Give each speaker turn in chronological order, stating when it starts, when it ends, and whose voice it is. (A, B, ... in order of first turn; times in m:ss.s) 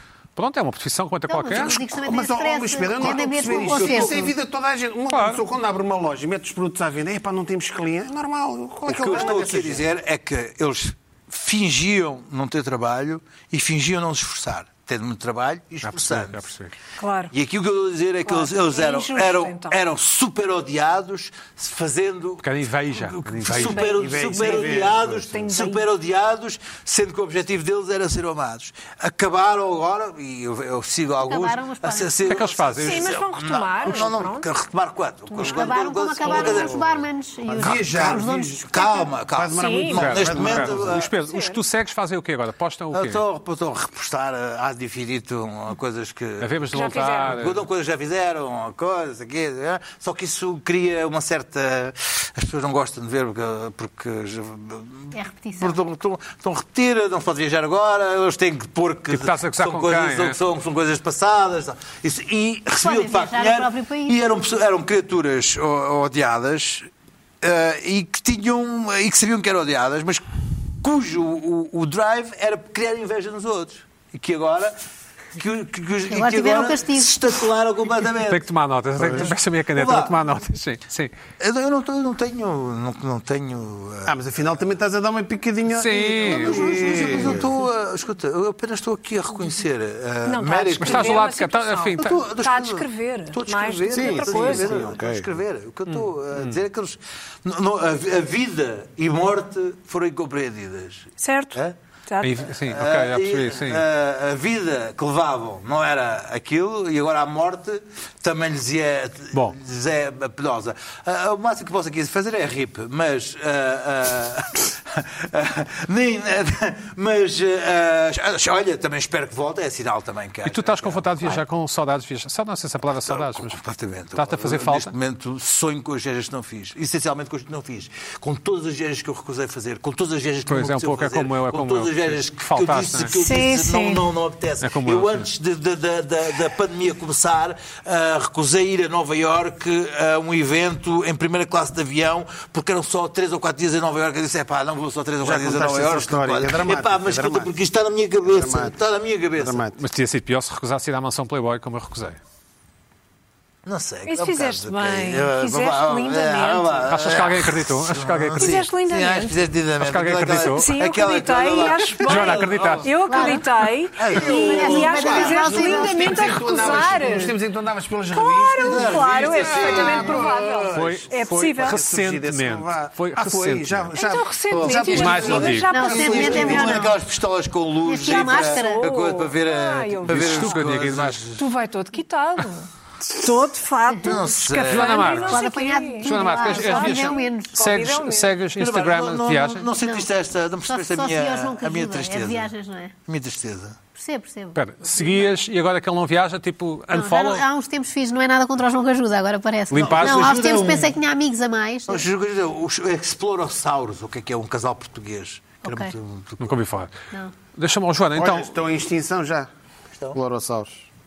0:00.4-0:01.8 A
0:01.3-0:04.2 B
0:01.9-0:09.9 C
0:03.0-0:04.3 D
0:05.1-0:05.4 A
0:08.9-0:16.4 D
0:15.8-0:16.7 A
0:17.0-0:17.3 E
0:17.3-0:37.0 D
0:18.2-0:19.8 E
0:22.4-0:23.8 A
0:23.5-0:25.8 E
0:23.9-0:25.2 C
0:31.2-0:32.4 B
0:32.3-0:33.1 A
0:32.8-0:34.5 E
0:35.4-0:39.1 B
0:37.5-0:38.7 C
0:37.6-0:41.1 D
0:39.3-0:41.0 C
0:39.5-0:40.2 E
0:40.0-0:43.2 A
0:41.1-0:41.6 E
0:42.9-0:46.6 D
0:46.4-0:47.6 A
0:46.7-0:47.4 E
0:47.2-1:06.9 D
0:55.1-0:55.8 B
0:59.1-1:00.4 A
1:02.8-1:04.2 B
1:07.4-1:10.2 D
1:10.8-1:14.8 D
1:15.4-1:18.5 D
1:16.1-1:17.2 B
1:18.3-1:21.1 A
1:19.0-1:20.2 D
1:19.0-1:19.3 C
1:21.4-1:24.1 D
1:24.0-1:27.5 C
1:25.7-1:26.6 A
1:26.2-1:31.3 D
1:26.8-1:27.4 B
1:30.2-1:34.9 E
1:30.8-1:32.2 A
1:32.0-1:41.8 D
1:33.9-1:35.3 C
1:35.9-1:36.6 A
1:41.2-1:42.4 E
1:42.2-1:43.8 A
1:42.6-2:01.4 D
2:00.4-2:03.6 A
2:03.1-2:29.7 D
2:04.2-2:04.9 A
2:10.5-2:13.1 A
2:13.1-2:14.1 E
2:14.6-2:15.3 A
2:25.2-2:27.5 C
2:28.2-2:28.8 C
2:29.4-2:29.8 C
2:29.8-2:32.2 A
2:33.7-2:42.9 D
2:34.1-2:36.8 E
2:36.9-2:38.6 A
2:38.4-2:39.4 E
2:39.8-2:40.7 A
2:40.5-2:47.4 E
2:42.0-2:42.9 A
2:43.1-2:43.5 B
2:44.0-2:45.4 D
2:44.1-2:51.0 C
2:44.1-2:46.5 B
2:48.1-2:51.8 E
2:48.6-2:50.8 D
2:50.7-2:53.9 A
2:51.6-2:56.8 C
2:53.9-2:56.8 E
2:54.5-3:01.4 D
2:54.9-2:55.7 A
2:55.7-2:57.0 B
2:57.8-2:58.9 B
2:58.0-3:00.6 E
3:00.1-3:01.2 A
3:01.4-3:08.4 E
3:04.0-3:05.3 D
3:04.6-3:05.4 A
3:05.3-3:07.6 B
3:06.0-3:09.7 A
3:06.7-3:07.0 D
3:08.6-3:12.5 D
3:09.8-3:10.1 B
3:10.7-3:12.9 B
3:13.1-3:13.8 D
3:14.0-3:15.3 B
3:14.6-3:17.4 A
3:16.9-3:22.1 B
3:19.7-3:20.3 A
3:19.8-3:21.0 D
3:21.9-3:26.5 D
3:25.6-3:25.9 B
3:26.4-3:26.9 A
3:27.6-3:28.5 A
3:28.2-3:29.5 C
3:30.1-3:30.8 C